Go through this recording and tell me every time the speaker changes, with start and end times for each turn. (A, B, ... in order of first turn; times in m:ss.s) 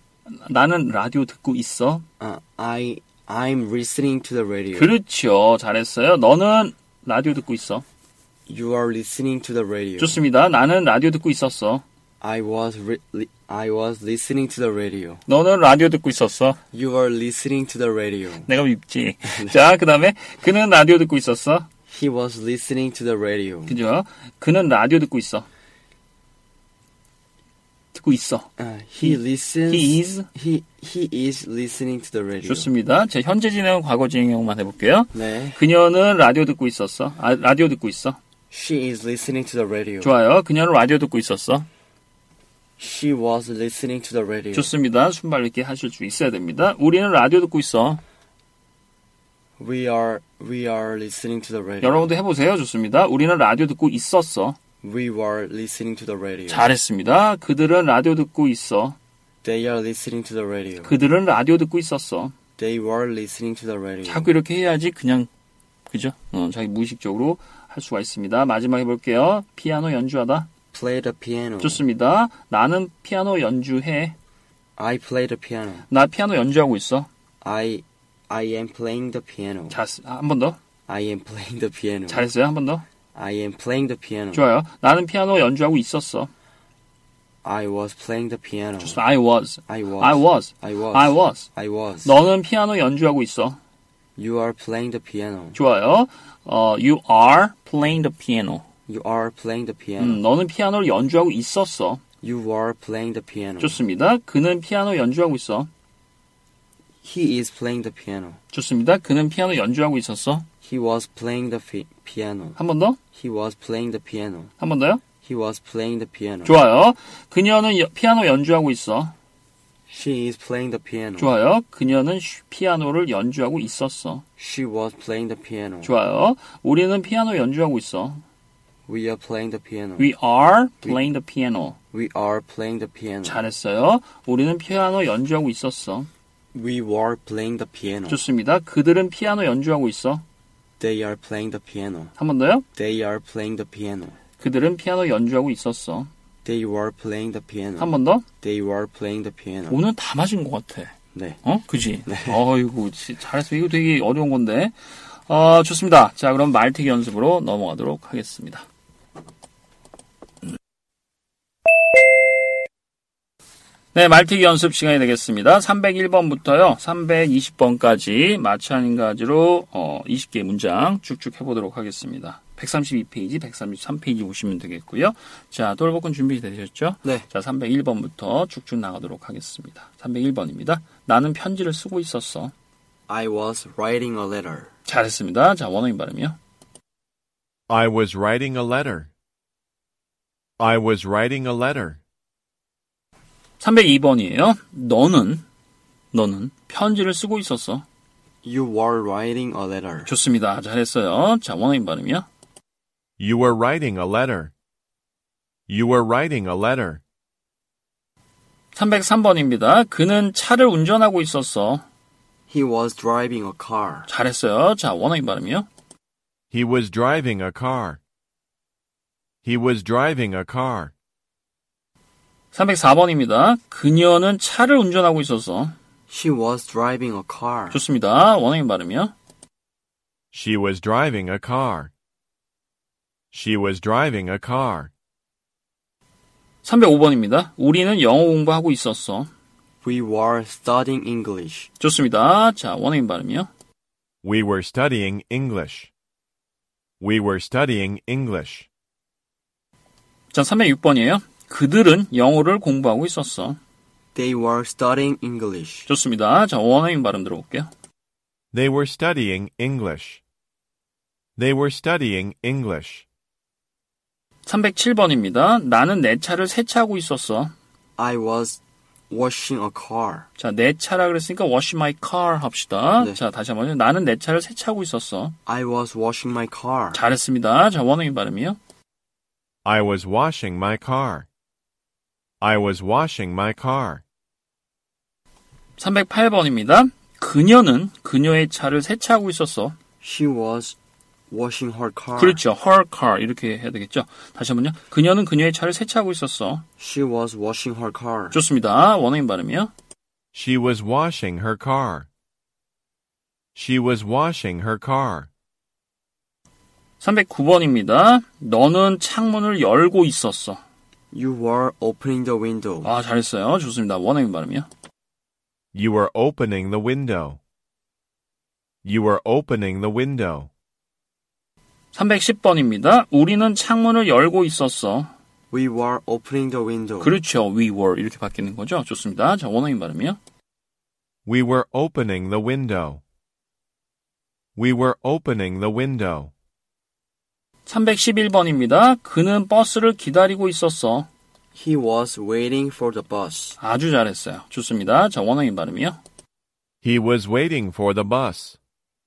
0:00.3-0:02.0 A
0:02.2-0:04.9 B
0:04.7-0:07.8 A
0:08.5-0:10.2 B
0:10.0-0:11.8 A
0:12.2-0:15.2 B
0:15.3-0:16.6 A
0:16.7-0:18.5 B
0:18.4-0:21.7 A
0:21.9-0:23.8 B
0:23.7-0:25.5 A
0:27.9-0:28.5 A
0:28.6-0:32.7 B
0:29.0-0:30.3 A
0:32.4-0:38.2 A
0:35.1-0:35.6 B
0:38.5-0:40.1 B
0:40.0-0:41.7 A
0:42.8-0:44.7 B
0:44.5-0:48.0 A
0:49.6-0:52.1 B
0:51.8-0:54.6 A
0:54.8-0:56.7 B
0:56.5-0:59.0 A
0:59.4-1:00.9 B
1:00.8-1:02.3 A
1:02.6-1:04.3 B
1:04.0-1:05.3 A
1:05.9-1:10.5 A
1:10.7-1:11.8 B
1:11.6-1:14.2 A
1:14.8-1:15.9 B
1:15.9-1:17.1 A
1:17.4-1:19.8 B
1:19.7-1:20.6 A
1:20.9-1:22.3 B
1:22.1-1:22.8 A
1:23.2-1:24.4 B
1:24.3-1:26.3 A
1:27.4-1:29.0 B
1:28.8-1:31.5 A
1:29.7-1:32.2 B
1:32.0-1:33.6 A
1:34.2-1:35.6 B
1:35.5-1:38.7 A
1:38.9-1:40.2 B
1:40.0-1:42.0 A
1:42.2-1:43.8 B
1:43.6-1:45.7 A
1:47.0-1:48.4 B
1:48.5-1:50.5 A
1:50.6-1:52.6 B
1:52.6-1:53.0 A
1:53.1-1:54.5 B
1:54.6-1:55.0 A
1:55.2-1:56.6 B
1:56.4-1:59.1 A
1:59.9-2:01.3 B
2:01.2-2:04.2 A
2:04.4-2:05.9 B
2:05.8-2:08.2 A
2:08.9-2:10.1 B
2:10.0-2:11.8 A
2:11.9-2:13.4 B
2:13.2-2:16.1 A
2:16.5-2:18.2 B
2:18.1-2:20.2 A
2:20.8-2:22.1 B
2:22.2-2:22.6 A
2:22.8-2:24.2 B
2:24.4-2:26.1 A
2:26.4-2:29.8 B
2:27.8-2:28.3 A
2:29.7-2:38.6 A
2:31.1-2:31.4 B
2:32.1-2:32.4 B
2:43.9-3:02.5 A
3:03.1-3:04.7 B
3:04.9-3:06.4 A
3:07.7-3:09.1 C
3:10.6-3:12.0 C
3:13.6-3:15.4 A
3:16.1-3:17.8 A
3:18.4-3:20.1 B
3:20.1-3:22.3 A
3:23.2-3:24.5 C
3:25.7-3:27.0 C
3:28.8-3:31.8 A
3:32.5-3:34.1 B
3:34.1-3:35.7 A
3:36.5-3:38.0 C
3:39.4-3:40.9 C
3:42.5-3:45.8 A
3:46.1-3:47.8 B
3:47.7-3:49.1 A
3:50.3-3:51.9 C
3:53.3-3:54.9 C
3:56.6-3:59.3 A
3:59.8-4:01.7 B
4:01.8-4:03.5 A
4:04.2-4:05.9 C
4:07.0-4:08.7 C
4:10.3-4:13.6 A
4:14.2-4:15.9 B
4:15.9-4:17.7 A
4:18.5-4:20.2 C
4:21.4-4:23.1 C
4:24.5-4:27.5 A
4:28.0-4:30.3 B
4:30.4-4:35.4 A
4:35.5-4:37.0 B
4:36.9-4:38.6 A
4:39.6-4:41.3 C
4:42.4-4:44.0 C
4:45.8-4:49.8 A
4:50.0-4:50.8 B
4:51.3-4:52.4 B
4:52.2-4:56.6 A
4:56.8-4:58.4 B
4:58.3-4:59.7 A
5:00.3-5:02.1 C
5:03.6-5:05.3 C
5:07.0-5:10.6 A
5:11.1-5:12.9 B
5:12.8-5:14.7 A
5:15.7-5:17.4 C
5:18.8-5:20.5 C
5:21.9-5:25.1 A
5:25.5-5:27.2 B
5:27.0-5:30.2 A
5:31.3-5:33.0 C
5:34.6-5:36.3 C
5:37.7-5:41.1 A
5:41.6-5:43.6 B
5:43.6-5:46.0 A
5:46.8-5:48.6 C